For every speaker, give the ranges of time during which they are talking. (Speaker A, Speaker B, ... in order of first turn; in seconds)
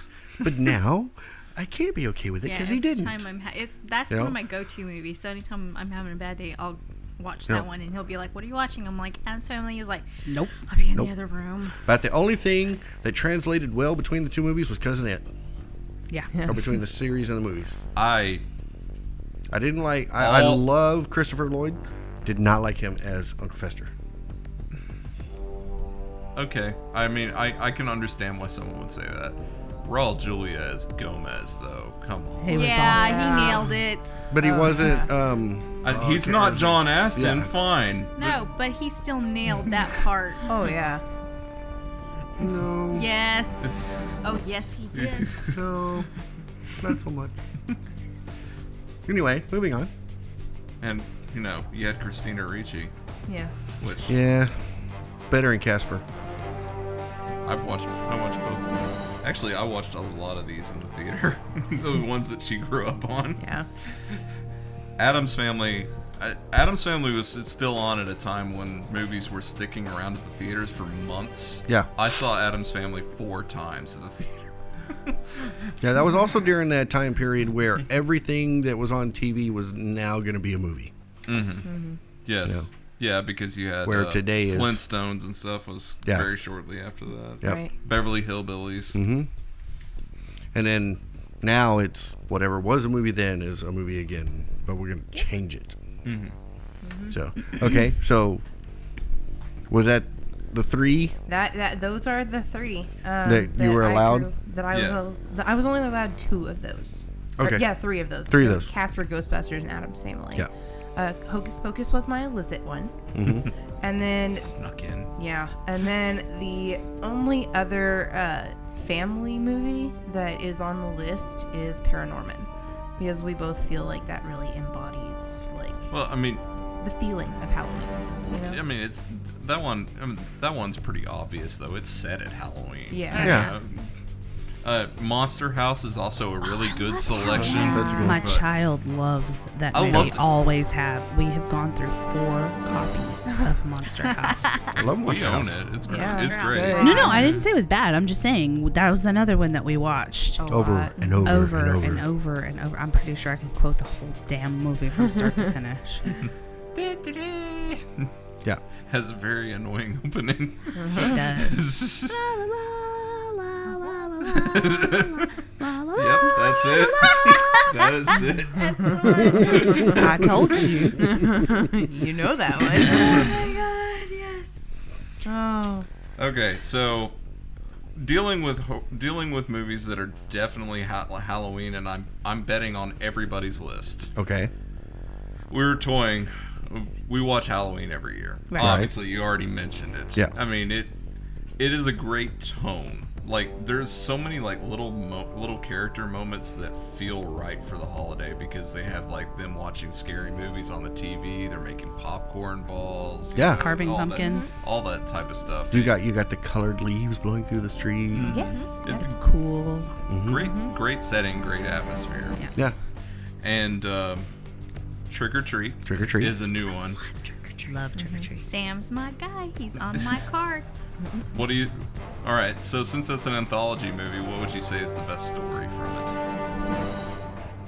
Speaker A: 0.4-3.2, 4.1-4.3, 11.8-15.3, 16.4-17.8, 19.5-23.9, 34.3-37.5, 42.4-43.1, 45.5-46.1, 46.8-47.4, 49.0-49.9, 54.0-56.0, 75.8-80.9, 83.8-84.8, 86.0-86.3, 88.9-89.3, 90.5-95.8, 97.1-98.4, 99.7-101.2, 103.2-104.3, 107.4-107.7, 108.3-108.7, 113.1-113.5, 133.2-133.5, 137.3-138.2, 139.8-140.1, 144.8-145.6, 150.5-152.1, 184.2-184.5, 188.6-188.9, 203.3-203.6, 205.7-208.4, 210.1-210.5, 215.8-216.3
Speaker B: 2.4-10.1, 10.6-11.8, 32.5-34.2, 38.2-40.5, 42.9-45.4, 133.1-133.6, 136.5-138.1, 145.9-147.3, 166.3-167.9, 168.6-169.4, 172.8-174.7, 208.5-208.7, 217.0-217.7, 218.4-220.7
Speaker C: 10.2-10.5, 32.4-33.4, 138.0-144.7, 146.8-150.4, 151.2-156.1, 160.9-166.4, 169.8-171.2, 203.5-204.6, 208.8-209.9, 217.6-218.5
Speaker D: 17.9-18.4, 20.2-20.6, 26.3-32.8, 35.8-38.4, 43.6-44.2, 44.9-45.5, 50.8-52.9, 53.8-54.1, 57.4-63.4, 65.0-74.5, 75.1-75.5, 81.2-81.7, 82.2-89.0, 96.0-96.3, 104.7-105.0, 114.3-115.1, 125.9-126.4, 128.4-133.9, 134.6-138.4, 139.7-140.2, 145.0-147.3, 156.2-158.1, 158.9-162.2, 164.3-165.3, 165.9-170.0, 172.9-173.2, 176.2-177.1, 178.0-184.1, 185.5-190.9, 191.6-205.9, 208.1-209.2, 210.2-212.4, 213.4-214.3, 215.1-217.0, 221.3-226.2
Speaker E: 32.9-33.8, 34.4-35.1, 40.4-41.0, 53.3-53.5, 63.4-63.7, 81.6-82.0, 87.4-87.7, 96.8-97.2, 101.3-113.0, 113.8-114.5, 115.2-125.9, 126.8-128.6, 132.9-133.5, 145.9-147.4, 150.4-151.3, 160.7-161.2, 168.7-170.2, 171.0-173.4, 175.2-175.9, 204.2-204.5, 208.3-209.0, 210.3-210.7, 217.9-218.3